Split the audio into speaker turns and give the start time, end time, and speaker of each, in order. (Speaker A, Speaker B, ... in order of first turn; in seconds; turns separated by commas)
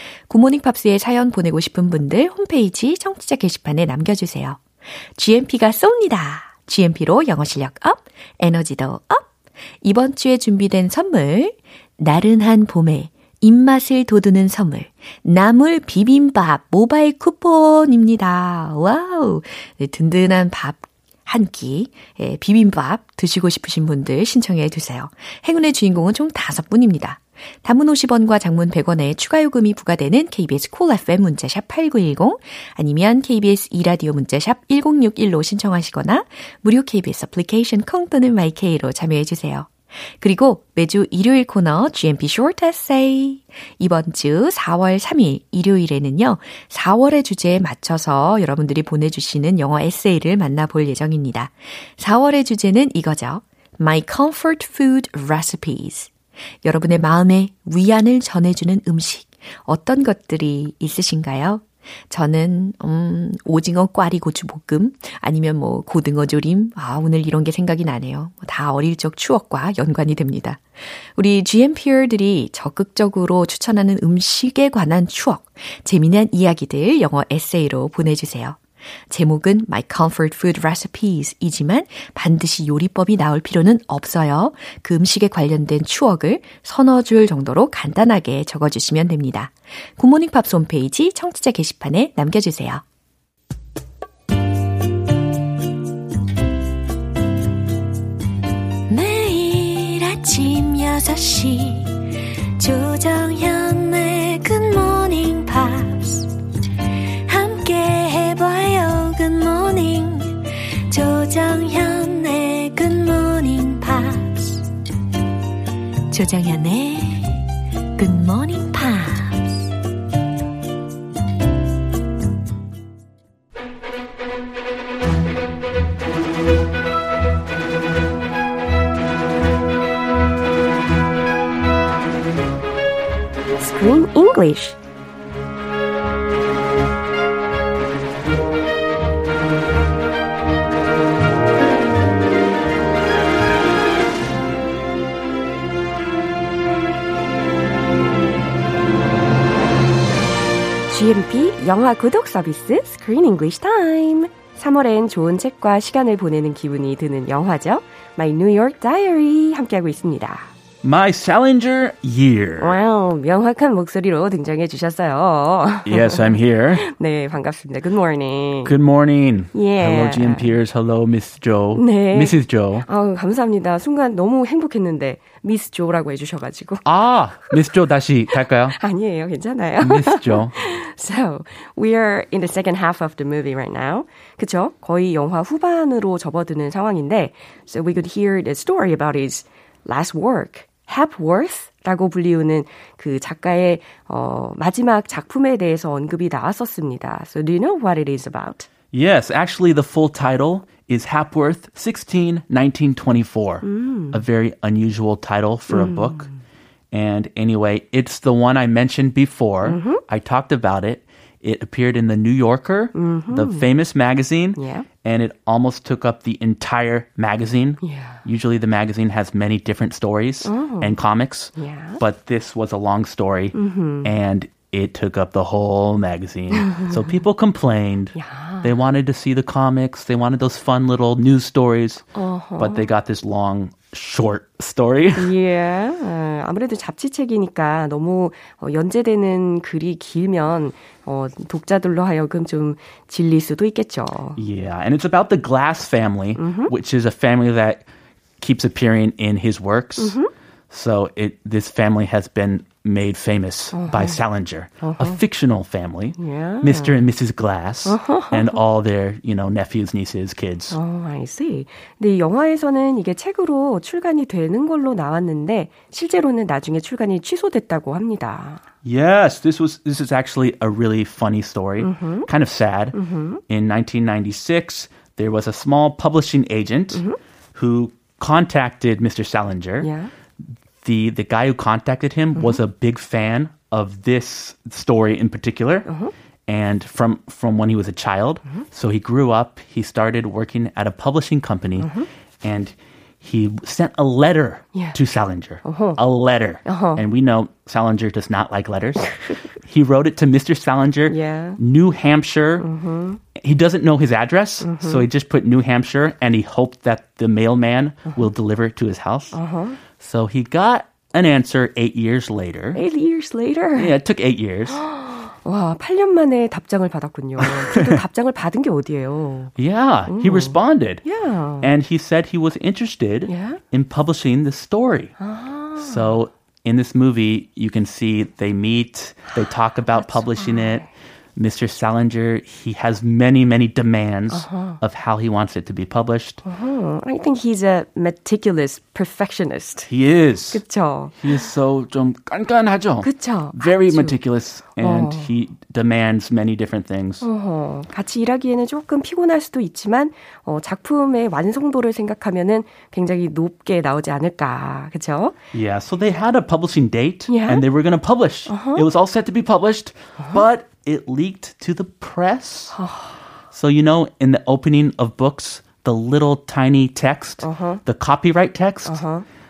Speaker A: 0.3-56.1, Speaker A: 56.6-92.8, Speaker A: 98.9-106.3, Speaker A: 107.2-114.7, Speaker A: 116.1-119.6, Speaker B: 133.6-134.8, Speaker B: 150.9-160.5, Speaker C: 160.8-162.8, Speaker B: 162.6-166.2, Speaker C: 165.8-166.8, Speaker B: 166.8-168.7, Speaker C: 168.6-172.8, Speaker B: 169.5-170.5, Speaker B: 171.8-176.8, Speaker C: 176.8-178.8, Speaker B: 178.7-198.7, Speaker C: 179.8-180.6, Speaker C: 198.9-206.3, Speaker B: 203.6-204.2, Speaker B: 205.7-206.3, Speaker C: 206.9-235.3, Speaker B: 209.6-210.0, Speaker B: 212.9-213.7, Speaker B: 214.5-214.9, Speaker B: 217.8-218.2, Speaker B: 220.4-220.9, Speaker B: 221.6-222.0, Speaker B: 223.5-224.1, Speaker B: 228.1-228.7, Speaker B: 232.1-232.9, Speaker B: 235.2-244.4, Speaker C: 244.4-247.8, Speaker B: 246.4-246.7, Speaker C: 248.4-250.2, Speaker B: 250.0-250.3, Speaker C: 250.7-260.8, Speaker B: 253.7-254.2, Speaker B: 254.8-255.2, Speaker B: 256.2-257.0, Speaker B: 257.8-258.5, Speaker B: 260.7-268.6, Speaker C: 268.8-273.0, Speaker B: 271.8-272.3, Speaker B: 272.9-273.4, Speaker C: 273.5-277.0, Speaker C: 277.5-279.9, Speaker B: 279.8-280.1, Speaker C: 280.8-285.9, Speaker B: 285.9-286.1, Speaker C: 286.5-291.9, Speaker B: 291.8-292.1, Speaker C: 292.4-302.7, Speaker B: 295.6-296.0, Speaker B: 296.6-297.0, Speaker B: 301.1-301.6, Speaker B: 302.6-303.2, Speaker C: 303.4-309.4, Speaker B: 304.6-305.0, Speaker B: 309.3-309.8, Speaker C: 310.0-312.8, Speaker B: 312.7-313.9, Speaker C: 313.7-314.8, Speaker B: 314.7-319.5, Speaker C: 317.7-318.0, Speaker C: 319.6-321.0, Speaker B: 320.1-321.7, Speaker C: 321.6-325.1, Speaker B: 323.3-323.6, Speaker B: 325.2-326.1, Speaker C: 325.8-336.4, Speaker B: 329.9-330.9, Speaker B: 334.3-334.8, Speaker B: 336.4-339.9, Speaker C: 339.9-340.6, Speaker B: 340.5-341.4, Speaker C: 341.2-347.2, Speaker B: 343.0-344.2, Speaker B: 344.8-345.3, Speaker B: 347.2-355.3, Speaker C: 355.5-362.8, Speaker B: 357.3-357.6, Speaker B: 358.5-358.8, Speaker B: 362.7-363.1, Speaker C: 363.5-369.0, Speaker B: 367.4-367.8, Speaker B: 368.9-369.2